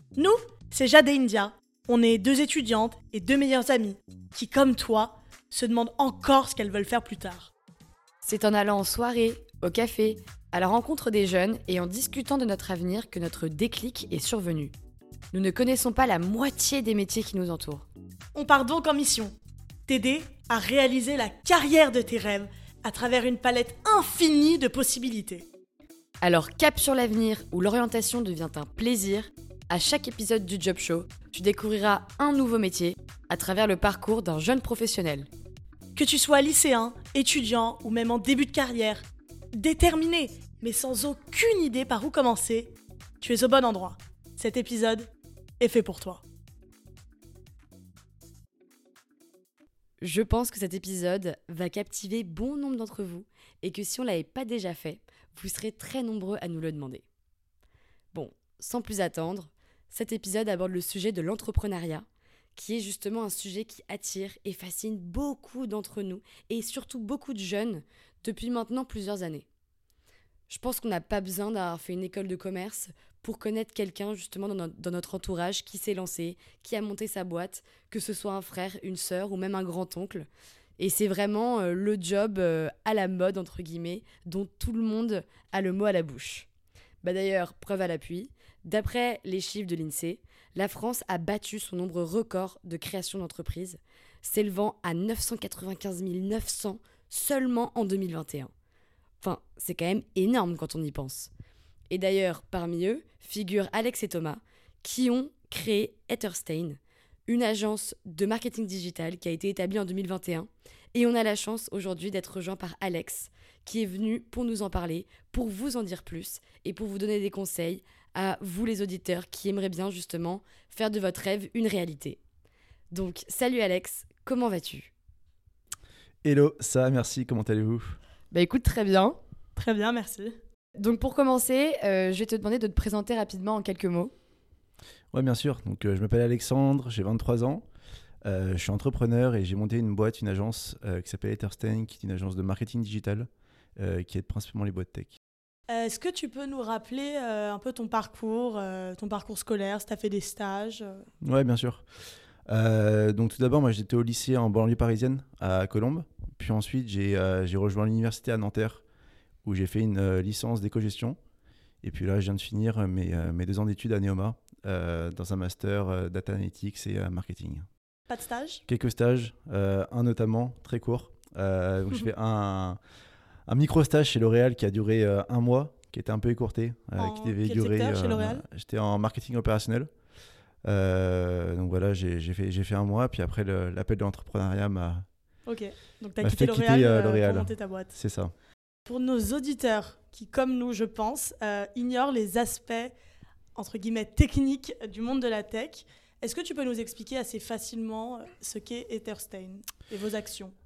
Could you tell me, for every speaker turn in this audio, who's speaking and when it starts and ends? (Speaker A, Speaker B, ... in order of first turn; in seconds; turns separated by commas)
Speaker A: 0.1-7.5, Speaker B: 8.2-14.7, Speaker B: 15.3-17.9, Speaker A: 18.3-19.4, Speaker A: 19.9-25.5, Speaker B: 26.2-35.3, Speaker A: 36.0-46.2, Speaker B: 50.0-57.1, Speaker B: 58.1-69.5, Speaker B: 70.5-86.5, Speaker B: 87.0-98.5, Speaker B: 99.2-101.3, Speaker B: 101.9-122.2, Speaker B: 122.9-124.9, Speaker C: 126.2-128.0, Speaker B: 128.3-129.2, Speaker A: 129.6-130.4, Speaker B: 130.8-134.1, Speaker C: 135.1-137.7, Speaker C: 138.2-145.2, Speaker A: 145.7-151.1, Speaker C: 151.2-151.9, Speaker C: 152.5-158.8, Speaker C: 159.4-161.2, Speaker C: 161.8-167.7, Speaker A: 168.1-168.6, Speaker C: 168.7-172.8, Speaker C: 173.5-179.9, Speaker A: 177.0-178.4, Speaker C: 180.6-185.1, Speaker A: 185.5-187.9, Speaker C: 186.2-188.3, Speaker A: 188.9-192.9, Speaker A: 193.6-200.5